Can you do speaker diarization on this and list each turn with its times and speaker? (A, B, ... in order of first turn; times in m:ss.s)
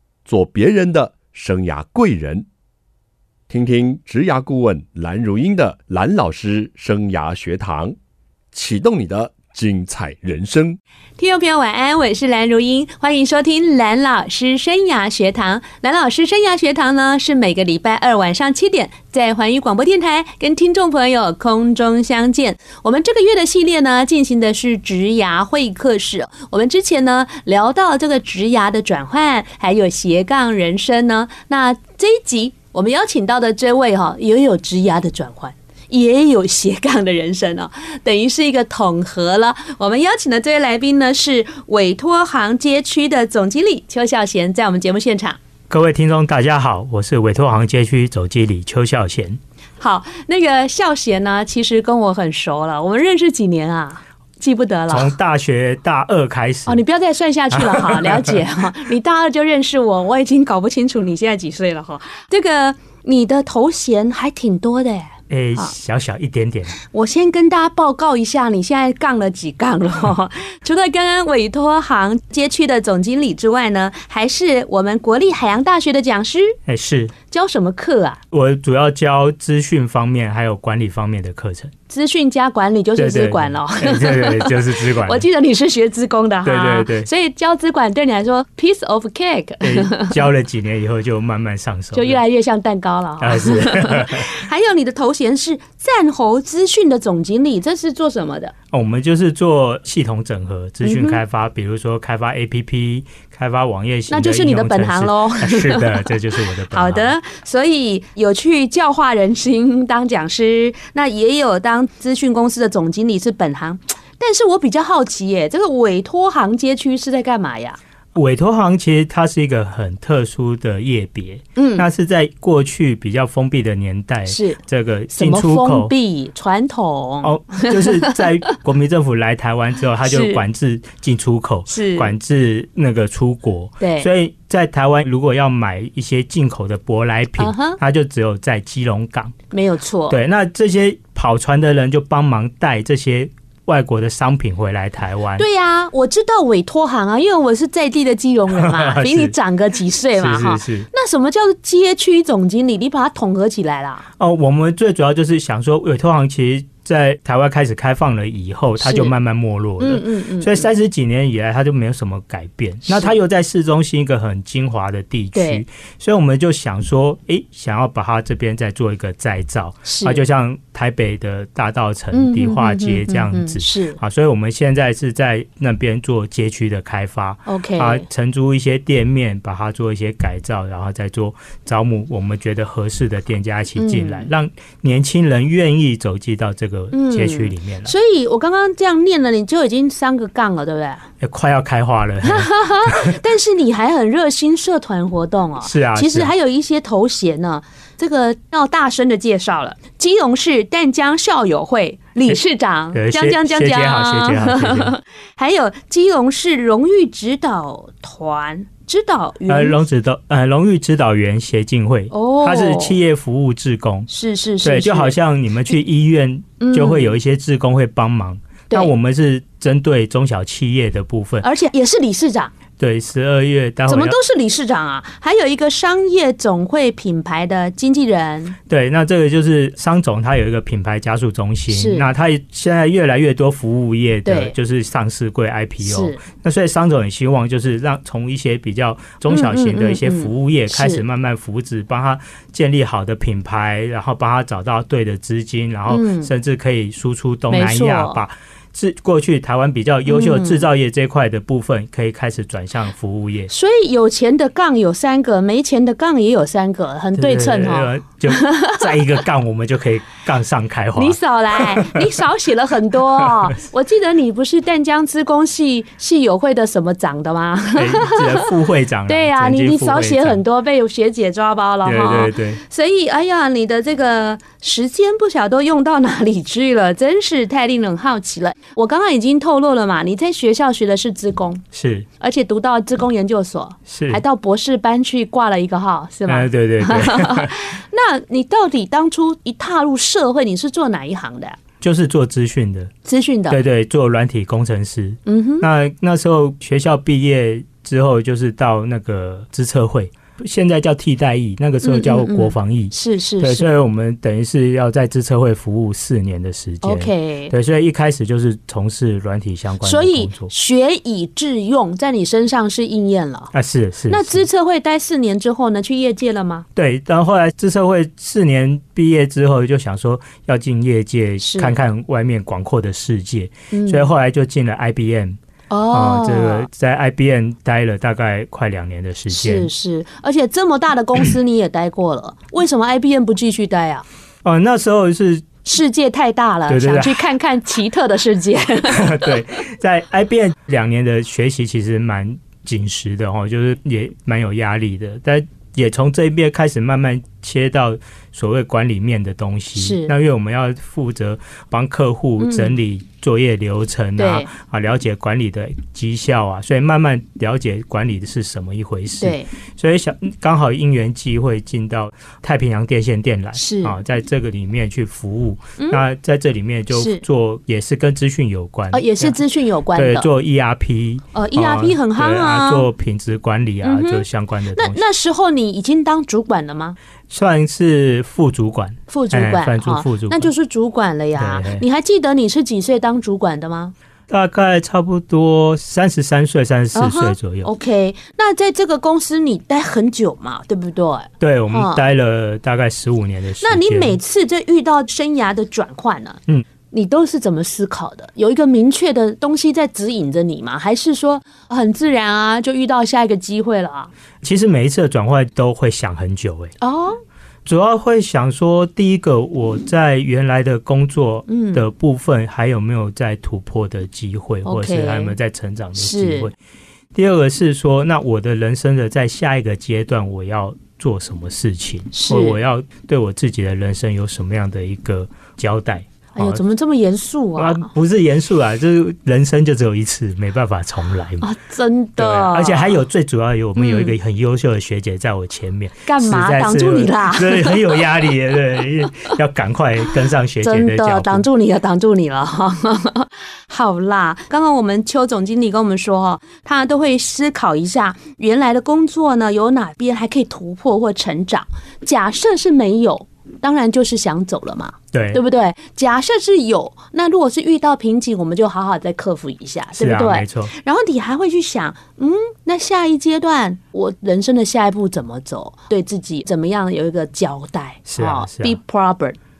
0:00.3-0:02.5 A
0:03.5-0:08.0 A
0:08.5-0:10.8 A
0:11.2-0:45.4 B
0:45.7-0:49.4 C
0:49.8-0:55.1 B
0:54.9-0:56.8 C
0:56.7-1:05.7 B
0:57.5-0:58.4 C
1:05.3-1:06.8 C
1:06.8-1:16.6 B
1:16.7-1:17.2 C
1:17.3-1:18.2 B
1:18.3-1:21.7 C
1:21.9-1:30.2 B
1:23.0-1:25.3 C
1:26.4-1:27.1 C
1:29.6-1:32.2 C
1:31.9-1:38.5 B
1:33.2-1:34.3 C
1:38.7-1:47.2 C
1:40.8-1:41.2 B
1:44.1-1:57.8 B
1:58.2-2:05.9 C
2:01.6-2:01.9 B
2:04.3-2:04.6 B
2:05.1-2:08.2 B
2:07.2-2:19.4 C
2:10.0-2:10.4 B
2:11.7-2:12.1 B
2:13.8-2:14.1 B
2:17.4-2:17.8 B
2:19.5-2:20.2 B
2:20.1-2:25.5 C
2:25.4-2:34.1 B
2:28.5-2:29.4 C
2:30.2-2:30.9 C
2:34.2-3:07.9 C
2:38.8-2:39.2 B
2:39.8-2:40.7 B
2:42.9-2:43.1 B
2:45.3-2:45.6 B
2:49.9-2:50.2 B
2:52.1-2:54.0 B
2:57.5-2:58.1 B
3:03.8-3:04.3 B
3:06.9-3:11.0 B
3:11.2-3:13.2 C
3:12.2-3:29.8 B
3:15.6-3:16.3 C
3:22.9-3:24.9 C
3:29.5-3:34.1 C
3:32.1-3:33.0 B
3:34.1-3:35.2 B
3:34.6-3:41.4 C
3:36.6-3:37.2 B
3:41.4-3:42.5 B
3:42.8-3:44.2 C
3:43.9-3:48.6 B
3:48.7-4:13.5 C
3:51.7-3:52.1 B
3:54.3-3:54.5 B
3:55.8-3:56.2 B
3:59.3-4:01.0 B
4:05.9-4:06.3 B
4:07.5-4:08.2 B
4:10.1-4:10.6 B
4:13.5-4:18.9 B
4:17.2-4:22.1 C
4:21.0-4:28.5 B
4:23.2-4:23.5 C
4:27.8-4:30.4 C
4:29.1-4:41.6 B
4:31.8-4:32.6 C
4:41.7-4:42.1 C
4:42.2-4:51.6 B
4:43.9-4:44.2 C
4:46.3-4:47.5 C
4:51.8-4:52.9 C
4:53.0-4:53.6 B
4:53.5-5:10.5 C
4:55.3-4:55.6 B
5:01.8-5:03.7 B
5:06.8-5:07.5 B
5:09.8-5:13.5 B
5:13.5-5:14.4 C
5:14.1-5:16.6 B
5:16.8-5:25.4 C
5:21.4-5:21.8 B
5:23.7-5:24.1 B
5:25.7-5:26.7 B
5:25.9-5:29.7 C
5:29.3-5:34.0 B
5:34.4-5:35.5 C
5:35.6-5:39.4 B
5:36.7-5:37.3 C
5:38.9-6:09.4 C
5:49.8-5:50.1 B
5:52.4-5:52.8 B
5:54.2-5:54.5 B
5:59.2-5:59.5 B
6:03.6-6:04.0 B
6:05.8-6:06.0 B
6:06.9-6:07.2 B
6:08.9-6:10.3 B
6:10.0-6:15.0 C
6:11.3-6:12.9 B
6:13.8-6:17.0 B
6:17.3-6:20.5 C
6:19.1-6:23.9 B
6:21.4-6:21.8 C
6:24.3-6:27.7 C
6:27.0-6:32.0 B
6:31.4-6:34.2 C
6:33.6-6:36.4 B
6:36.9-6:44.1 B
6:44.4-6:46.8 C
6:46.8-6:47.2 B
6:47.7-6:56.5 C
6:51.5-6:51.8 B
6:54.6-6:55.3 B
6:56.0-6:56.5 B
6:57.1-7:06.6 C
7:02.1-7:02.6 B
7:06.4-7:07.9 B
7:07.6-7:11.5 C
7:11.4-7:13.0 B
7:12.2-7:21.5 C
7:13.8-7:14.1 B
7:16.1-7:18.0 B
7:20.6-7:49.4 B
7:35.1-7:35.4 C
7:40.0-7:40.7 C
7:48.1-7:48.8 C